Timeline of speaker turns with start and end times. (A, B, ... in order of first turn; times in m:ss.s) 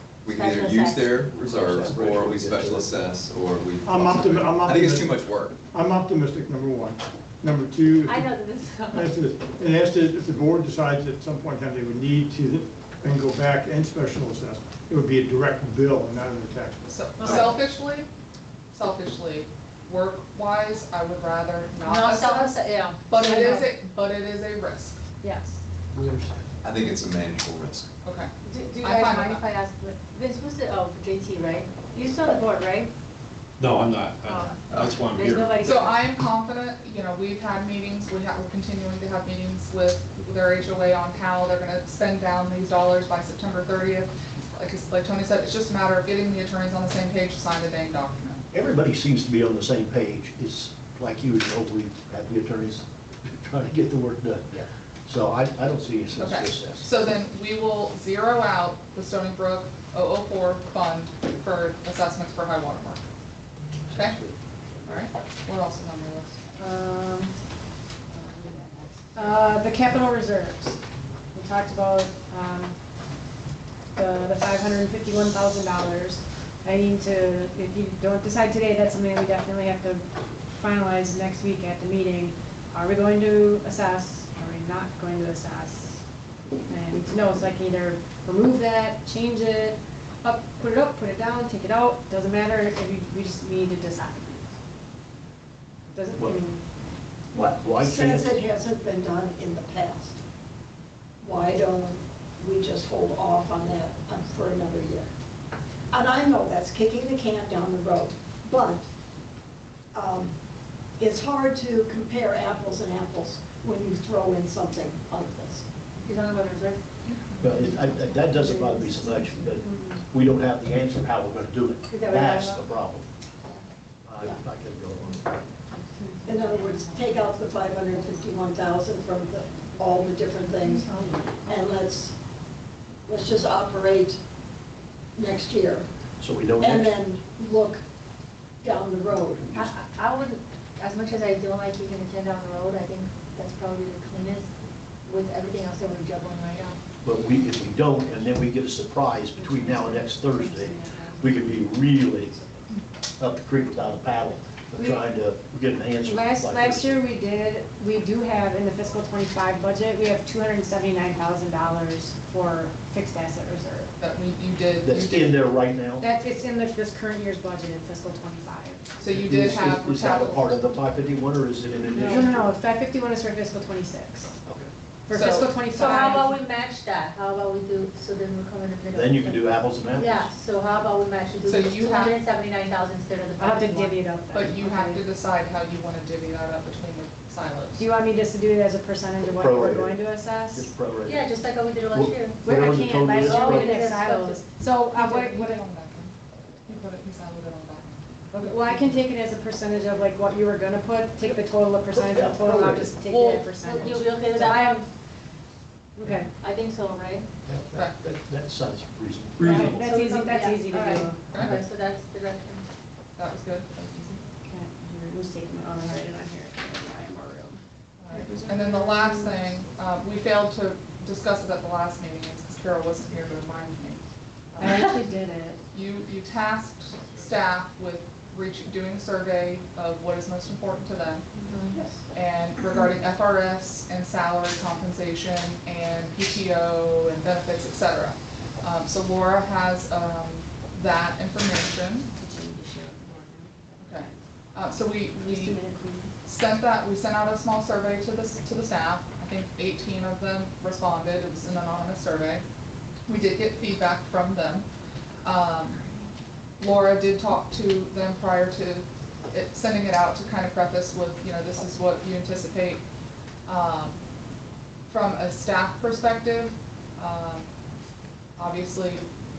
0:00.2-0:05.6 A
0:00.3-0:01.2 B
0:01.2-0:02.9 C
0:03.8-0:05.2 D
0:05.7-0:08.3 D
0:08.0-0:09.1 B
0:08.9-0:16.8 D
0:16.9-0:18.1 E
0:17.2-0:17.6 F
0:18.7-0:25.0 E
0:21.8-0:23.7 B
0:25.2-0:25.6 F
0:25.9-0:26.3 C
0:26.6-0:27.9 A
0:28.0-0:28.3 E
0:28.4-0:32.9 B
0:28.8-0:29.4 E
0:33.6-0:35.8 G
0:34.2-0:35.9 B
0:35.2-0:35.9 F
0:35.6-0:48.4 E
0:48.5-0:57.0 C
0:56.2-1:03.0 E
1:03.9-1:04.2 E
1:03.9-1:05.0 C
1:04.8-1:06.4 E
1:06.6-1:07.3 F
1:08.1-1:10.8 F
1:11.3-1:12.8 F
1:13.9-1:26.0 F
1:26.7-1:34.5 F
1:35.9-1:36.6 F
1:36.2-1:36.4 C
1:37.3-1:40.1 H
1:37.5-1:38.3 C
1:41.2-1:45.1 H
1:45.9-1:48.8 H
1:49.9-1:50.3 H
1:51.0-1:55.6 H
1:56.0-1:56.8 B
1:57.0-1:57.5 E
1:57.4-2:03.0 C
1:57.6-1:58.9 B
1:58.4-2:00.0 F
2:01.9-2:02.6 B
2:04.0-2:05.3 C
2:05.9-2:06.2 F
2:06.2-2:08.1 B
2:06.2-2:12.1 H
2:09.7-2:11.2 B
2:13.0-2:14.2 H
2:15.1-2:15.9 H
2:16.2-2:16.9 C
2:16.6-2:17.8 H
2:18.6-2:19.7 H
2:19.5-2:24.5 B
2:25.0-2:26.8 B
2:27.0-2:32.3 C
2:29.3-2:32.7 F
2:33.2-2:37.0 C
2:34.8-2:35.0 F
2:36.0-2:43.9 F
2:44.0-2:45.4 E
2:44.8-2:46.0 C
2:46.0-2:48.8 F
2:49.0-2:50.6 E
2:49.1-2:52.5 C
2:52.0-2:54.4 F
2:54.4-2:54.7 C
2:55.1-2:56.4 F
2:55.1-2:55.6 E
2:55.6-3:04.0 B
2:58.9-3:00.3 C
3:01.4-3:02.2 E
3:03.4-3:05.0 F
3:04.3-3:07.8 E
3:07.8-3:10.7 F
3:09.2-3:11.4 C
3:11.0-3:12.4 B
3:11.9-3:13.7 C
3:12.4-3:15.6 F
3:13.1-3:14.4 B
3:14.9-3:16.1 E
3:16.6-3:18.8 E
3:18.3-3:24.9 F
3:21.9-3:22.9 C
3:23.1-3:23.4 E
3:23.2-3:24.8 B
3:26.0-3:26.3 F
3:26.3-3:27.3 B
3:27.4-3:29.8 C
3:29.4-3:31.2 F
3:29.6-3:32.6 B
3:31.3-3:31.6 E
3:33.2-3:34.2 E
3:34.4-3:37.6 F
3:38.0-3:44.0 E
3:38.1-3:39.4 F
3:44.5-3:44.9 E
3:44.6-3:45.6 F
3:45.7-3:51.3 E
3:51.4-3:51.8 B
3:51.7-3:52.0 H
3:52.1-4:02.1 E
4:02.2-4:04.2 F
4:03.8-4:05.6 E
4:05.2-4:06.1 F
4:06.2-4:12.4 E
4:13.0-4:14.7 E
4:15.2-4:15.9 E
4:16.6-4:22.8 E
4:23.4-4:24.0 E
4:24.9-4:27.5 E
4:28.4-4:29.1 E